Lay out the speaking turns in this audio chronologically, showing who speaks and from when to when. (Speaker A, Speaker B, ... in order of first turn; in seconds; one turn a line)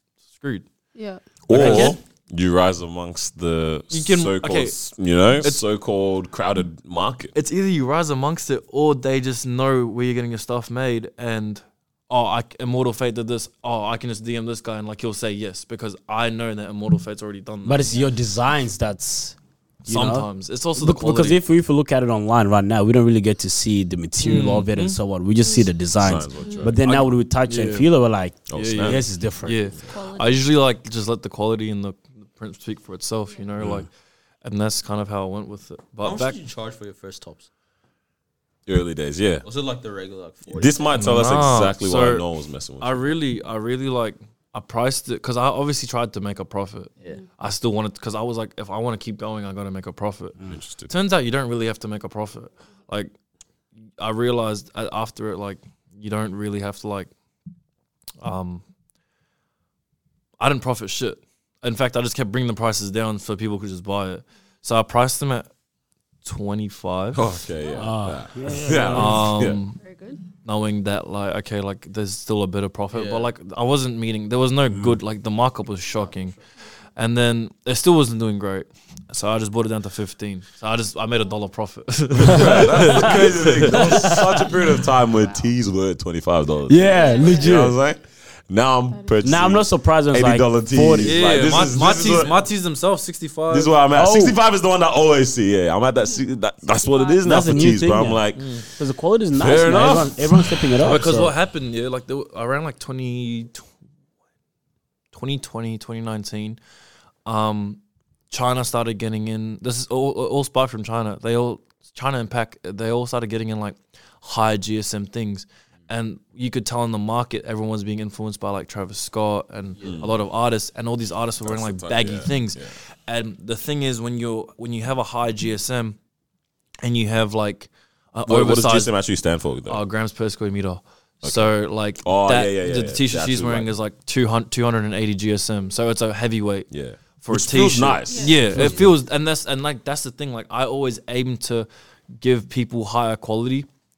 Speaker A: 0.3-0.7
Speaker B: 0.9-1.2
Speaker C: 1.5-7.3
Speaker A: 1.5-2.0
Speaker A: 3.9-4.8
Speaker A: 5.4-5.7
Speaker A: 7.3-17.9
Speaker D: 17.6-29.6
Speaker A: 19.9-21.4
Speaker A: 24.2-25.0
Speaker B: 25.4-25.7
Speaker C: 26.0-26.8
Speaker B: 26.4-26.7
Speaker A: 26.8-27.9
Speaker C: 28.5-29.1
Speaker A: 28.5-33.9
Speaker B: 29.9-30.4
Speaker A: 34.4-36.4
Speaker E: 36.0-37.5
Speaker C: 38.7-39.5
Speaker E: 39.4-41.3
Speaker C: 40.5-43.2
Speaker A: 41.0-42.3
Speaker A: 42.8-53.1
Speaker C: 50.4-50.9
Speaker A: 54.0-57.1
Speaker A: 58.2-58.6
Speaker A: 60.4-65.5
Speaker A: 66.2-67.3
Speaker C: 67.1-69.6
Speaker D: 67.8-69.2
Speaker A: 68.9-69.8
Speaker B: 69.8-70.2
Speaker A: 70.4-76.4
Speaker E: 72.9-73.3
Speaker A: 77.0-84.1
Speaker C: 82.2-92.3
Speaker D: 82.5-84.5
Speaker B: 85.2-85.5
Speaker D: 86.7-87.8
Speaker B: 86.8-87.7
Speaker B: 88.9-89.3
Speaker D: 89.2-91.7
Speaker A: 91.0-93.7
Speaker E: 92.1-92.4
Speaker C: 93.5-98.5
Speaker D: 93.9-94.4
Speaker B: 96.8-97.2
Speaker D: 97.2-98.2
Speaker A: 98.3-98.6
Speaker D: 98.8-101.3
Speaker C: 99.3-100.8
Speaker A: 100.8-103.7
Speaker A: 105.1-106.6
Speaker A: 107.3-126.0
Speaker E: 119.8-120.0
Speaker C: 119.8-120.1
Speaker C: 121.4-122.7
Speaker A: 126.8-128.9
Speaker C: 128.3-129.8
Speaker A: 129.7-136.7
Speaker C: 131.2-133.7
Speaker C: 136.7-138.9
Speaker A: 137.2-141.7
Speaker B: 138.1-138.5
Speaker D: 138.5-138.9
Speaker A: 142.2-143.7